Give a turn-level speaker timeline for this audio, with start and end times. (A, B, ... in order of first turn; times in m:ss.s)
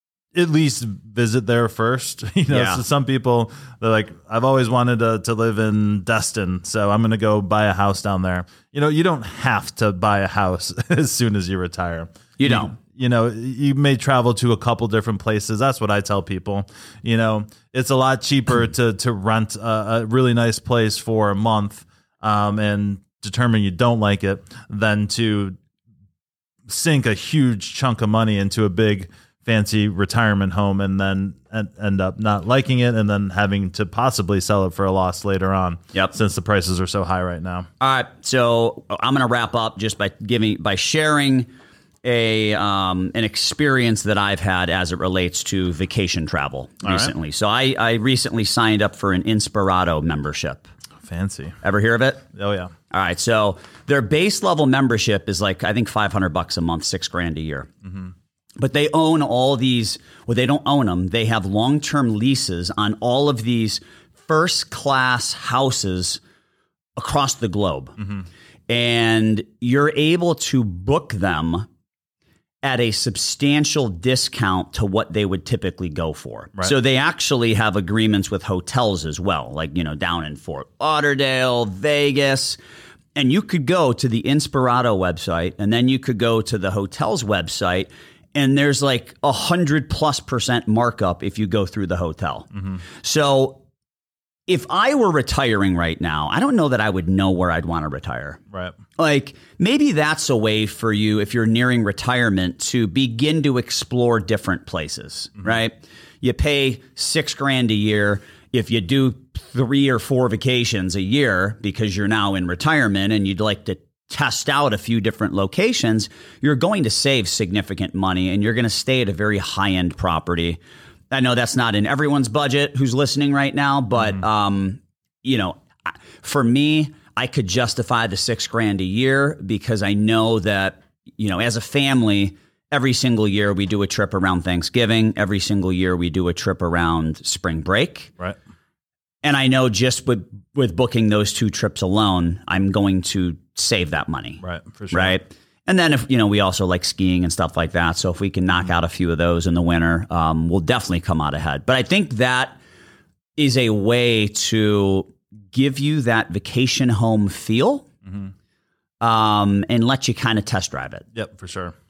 0:00.3-0:25.6 A
0:02.5-0:02.8 B
0:12.4-0:12.8 B
0:26.7-0:37.7 A
0:37.8-0:41.5 B
0:42.0-0:50.7 B
0:46.8-0:47.1 A
0:51.0-0:51.6 A
0:51.6-0:52.2 B
0:52.4-0:52.7 A
0:52.9-0:57.7 B
0:57.8-0:58.1 A
0:58.6-1:06.2 B
1:07.0-1:08.0 B
1:08.7-1:11.7 B
1:12.6-1:22.6 B
1:23.2-1:32.5 B
1:33.0-1:33.6 B
1:34.5-1:38.4 B
1:39.0-2:00.6 B
2:01.1-2:18.1 B
2:19.2-2:32.6 B
2:24.4-2:25.2 A
2:33.4-2:37.9 B
2:38.1-2:38.3 A
2:39.0-2:41.0 B
2:41.1-2:41.7 A